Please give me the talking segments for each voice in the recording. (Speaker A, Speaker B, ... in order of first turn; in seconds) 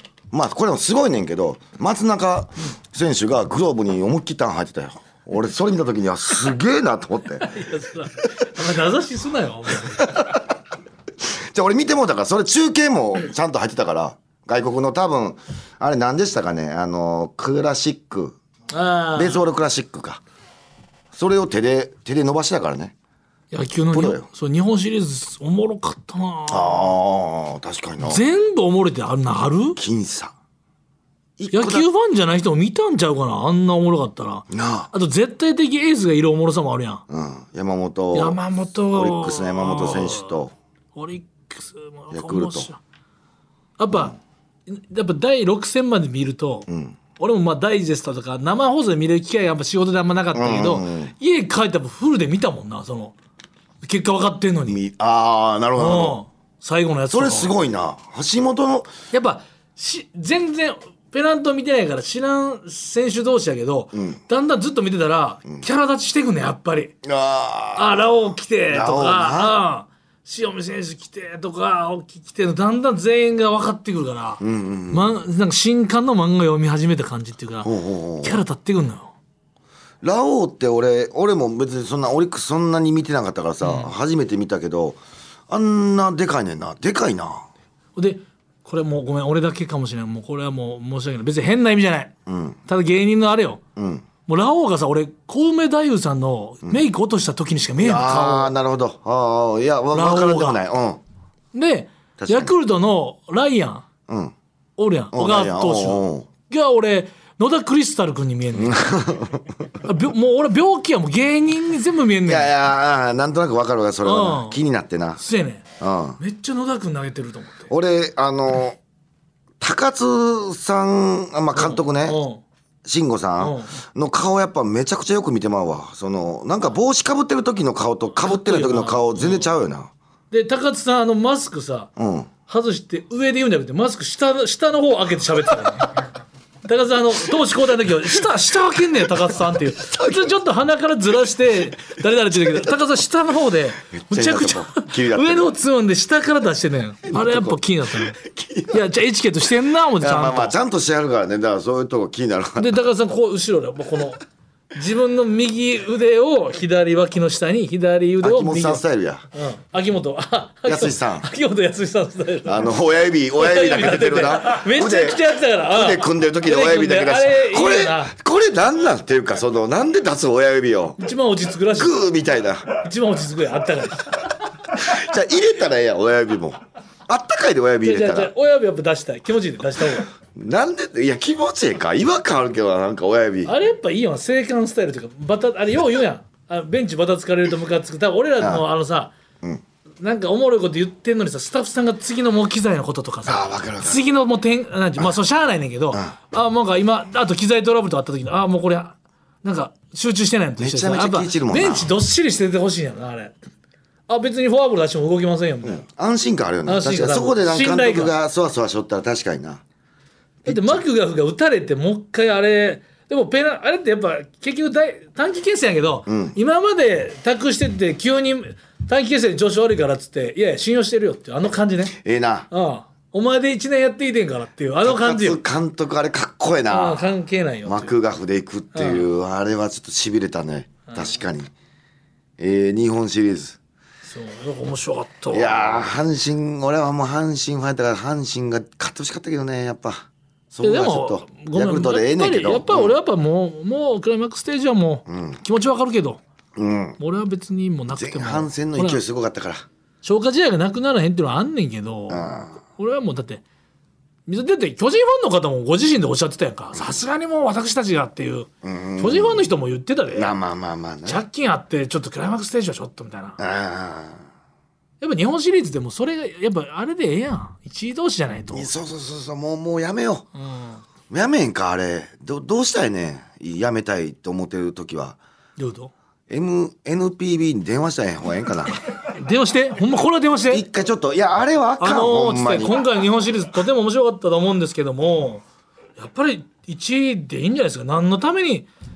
Speaker A: 0.3-7.5, 10.0-10.5, 11.2-18.4, 19.1-20.2, 21.1-22.9, 23.9-24.3, 26.5-28.2, 29.8-30.3, 31.4-31.9, 34.5-34.9, 37.1-38.4, 38.9-40.5, 42.1-42.7, 46.7-47.0, 50.3-51.1, 54.7-56.2, 57.1-58.9, 67.0-68.0, 68.7-69.6, 74.4-75.1, 77.6-78.4, 80.0-87.5, 92.3-92.6, 93.8-94.0, 97.8-101.0, 102.2-102.5, 104.1-104.3, 105.1-106.3, 108.5-109.5, 112.2-115.2, 115.8-116.2, 117.7-118.8, 119.6-122.2, 122.8-129.9, 132.0-132.3, 139.9-140.3, 143.9-145.5, 147.1-148.8, 150.0-152.7, 158.2-159.2, 160.7-161.3, 162.4-171.0, 171.7-172.7, 174.7-178.3, 180.3-183.5, 193.2-194.0, 200.6-201.9, 205.6-209.6, 210.4-210.8, 216.1-216.3, 221.9-222.5, 224.8-227.1, 227.6-231.5, 232.4-233.6, 235.3-242.9, 245.1-245.4, 246.6-247.0, 247.9-249.7, 252.1-252.5, 258.6-259.5, 260.1-261.2, 263.4-264.2, 268.5-270.3, 271.1-275.2, 276.3-278.8, 280.5-282.8
Speaker B: 7.4-10.2, 18.7-19.4, 23.5-26.9, 28.0-29.8, 31.5-37.0, 38.1-40.4, 40.9-42.8, 43.8-44.1, 44.7-53.1, 53.8-54.8, 55.8-57.5, 59.1-67.0, 67.8-79.1, 83.6-83.9, 88.0-92.1, 92.7-93.6, 94.3-98.5, 99.9-100.6, 101.5-103.8, 104.8-109.0, 109.8-112.5, 114.0-114.6, 115.2-115.6, 116.2-117.7, 121.5-122.4, 123.4-123.7, 128.2-129.5, 130.3-131.9, 132.5-136.0, 136.6-150.6, 152.6-154.2, 154.7-162.7, 163.4-168.1, 171.0-172.0, 172.7-174.2, 177.8-180.1, 183.4-189.1, 190.0-203.4, 204.1-205.8, 206.7-208.1, 210.4-221.9, 222.5-225.4, 226.7-227.9, 228.7-229.1, 230.9-231.1, 234.0-235.9, 240.6-246.2, 247.0-249.0, 250.0-253.4, 254.3-260.3, 261.1-263.4, 265.0-268.7, 270.4-270.8, 275.6-275.9, 279.0-280.6, 281.8-285.4, 286.0-288.7